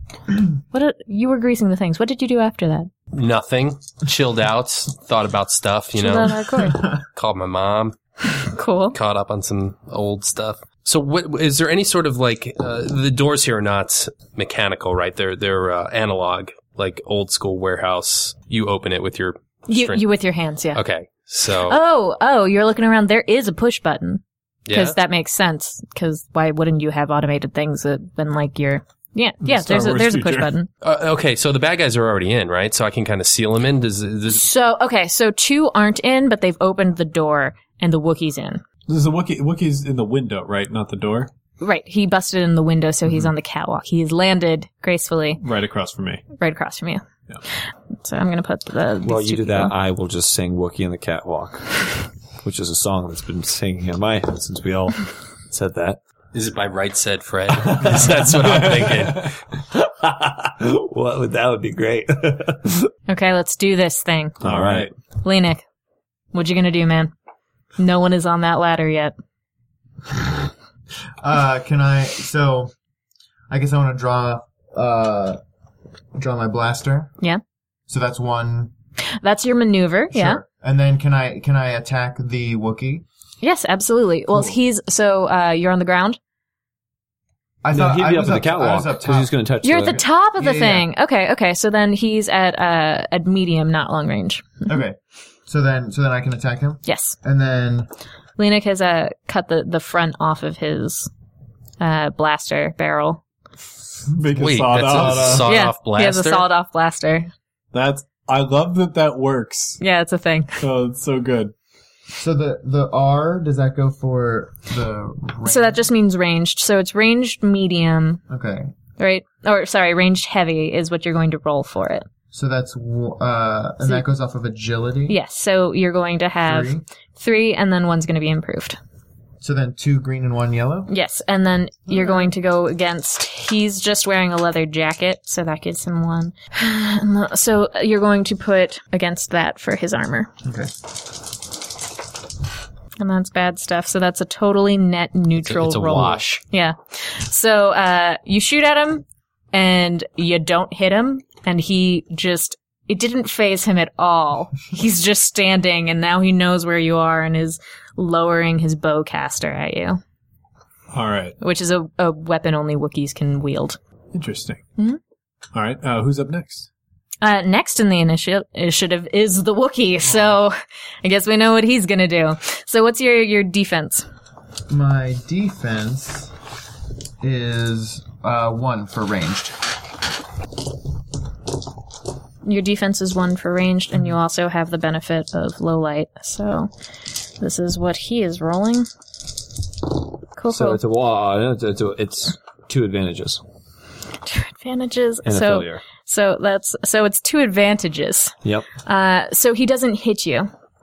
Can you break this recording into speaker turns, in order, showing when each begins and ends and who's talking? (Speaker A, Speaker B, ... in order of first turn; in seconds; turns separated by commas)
Speaker A: 0.7-2.9, Speaker B: 3.1-8.0, Speaker A: 5.9-6.8, Speaker A: 8.5-9.0, Speaker B: 8.9-20.0, Speaker A: 19.7-20.8, Speaker B: 20.7-21.8, Speaker A: 21.7-30.7, Speaker B: 24.7-24.9, Speaker C: 29.4-30.5, Speaker B: 30.8-34.5, Speaker A: 34.3-38.6, Speaker C: 38.9-41.3, Speaker A: 41.6-45.4, Speaker C: 45.4-46.2, Speaker A: 46.4-47.0, Speaker A: 47.9-49.7, Speaker D: 49.0-56.0, Speaker B: 56.3-59.3, Speaker C: 58.4-59.2, Speaker D: 59.7-62.9, Speaker A: 63.1-64.4, Speaker D: 64.4-64.9, Speaker C: 64.4-64.9, Speaker A: 65.2-65.6, Speaker A: 66.3-67.1, Speaker A: 67.8-69.1, Speaker E: 71.2-72.7, Speaker E: 73.5-75.4, Speaker E: 76.2-77.1, Speaker E: 77.9-78.7, Speaker A: 79.2-80.4, Speaker E: 80.1-83.0, Speaker A: 83.4-86.2, Speaker E: 87.6-90.9, Speaker D: 87.7-90.0, Speaker A: 89.6-94.6, Speaker E: 94.7-97.9, Speaker A: 96.8-97.2, Speaker A: 98.4-101.1, Speaker A: 101.8-103.2, Speaker C: 104.1-105.5, Speaker B: 104.3-106.4, Speaker E: 104.9-105.4, Speaker A: 105.4-107.3, Speaker C: 107.7-109.8, Speaker A: 109.8-110.6, Speaker C: 110.6-111.5, Speaker E: 112.2-115.8, Speaker A: 115.5-118.2, Speaker E: 118.3-118.7, Speaker A: 119.0-122.0, Speaker E: 122.3-125.2, Speaker A: 125.1-128.8, Speaker E: 126.4-126.8, Speaker E: 129.4-130.9, Speaker A: 130.9-140.3, Speaker E: 140.4-140.7, Speaker A: 143.0-160.0, Speaker B: 145.4-146.4, Speaker C: 160.9-161.4, Speaker A: 161.4-163.8, Speaker C: 164.1-164.6, Speaker C: 165.5-166.7, Speaker A: 167.2-174.1, Speaker E: 170.0-170.4, Speaker E: 174.7-176.3, Speaker E: 177.2-179.6, Speaker A: 182.4-186.7, Speaker A: 187.4-188.9, Speaker A: 190.4-190.8, Speaker D: 190.5-193.4, Speaker A: 194.2-200.5, Speaker D: 195.2-195.8, Speaker D: 198.4-198.7